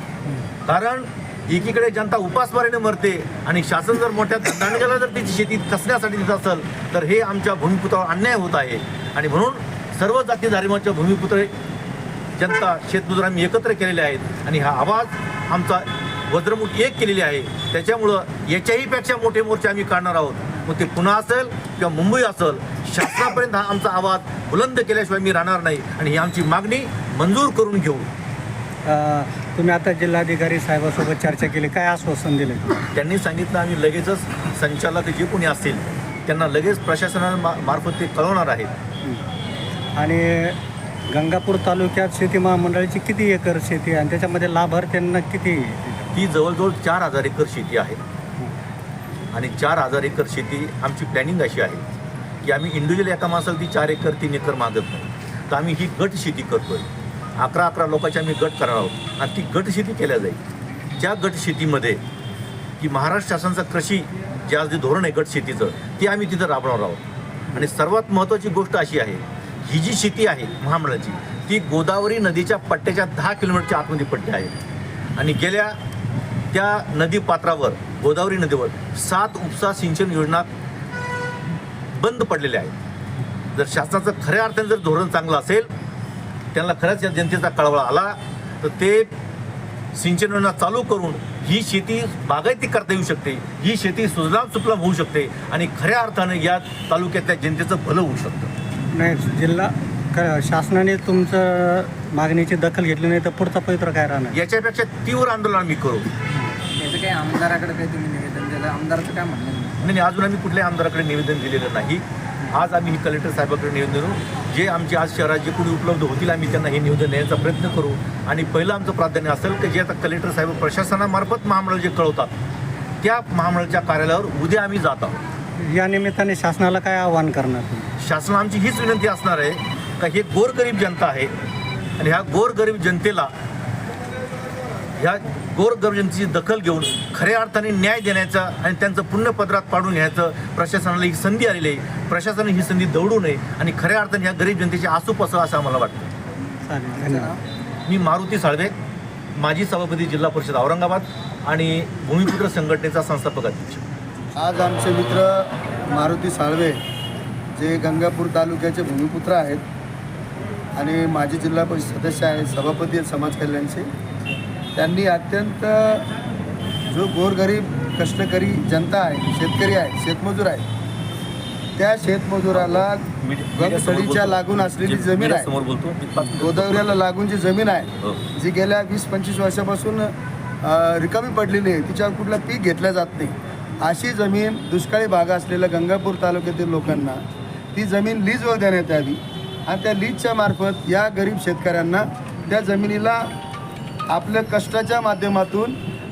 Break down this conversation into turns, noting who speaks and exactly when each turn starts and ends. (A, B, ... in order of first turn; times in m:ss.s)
0:00.6-0:11.5 A
0:12.4-0:28.1 A
0:28.8-0:32.8 B
0:32.9-0:38.7 A
0:40.0-0:40.6 B
0:41.1-0:46.1 B
0:46.1-0:48.0 A
0:49.3-0:51.8 A
0:52.4-1:00.4 A
1:01.0-1:02.0 A
1:02.8-1:07.0 A
1:07.5-1:14.5 A
1:15.2-1:15.7 A
1:16.5-1:20.5 A
1:21.9-1:22.7 A
1:23.6-1:25.7 A
1:26.5-1:29.1 A
1:29.9-1:38.5 A
1:38.9-1:44.4 B
1:44.3-1:46.1 A
1:46.7-1:49.8 C
1:49.8-2:02.3 A
2:03.0-2:05.2 A
2:05.6-2:07.9 B
2:08.0-2:11.3 A
2:12.0-2:13.3 A
2:15.0-2:26.1 A
2:26.6-2:27.3 B
2:27.0-2:27.4 C
2:27.8-2:28.7 A
2:29.4-2:33.8 A
2:34.4-2:36.8 D
2:37.6-2:39.6 D
2:40.8-2:43.9 D
2:44.8-2:46.0 D
2:46.9-2:50.6 D
2:51.8-2:55.5 D
2:52.5-2:56.9 A
2:56.3-3:07.2 D
3:07.7-3:13.3 D
3:14.1-3:15.8 D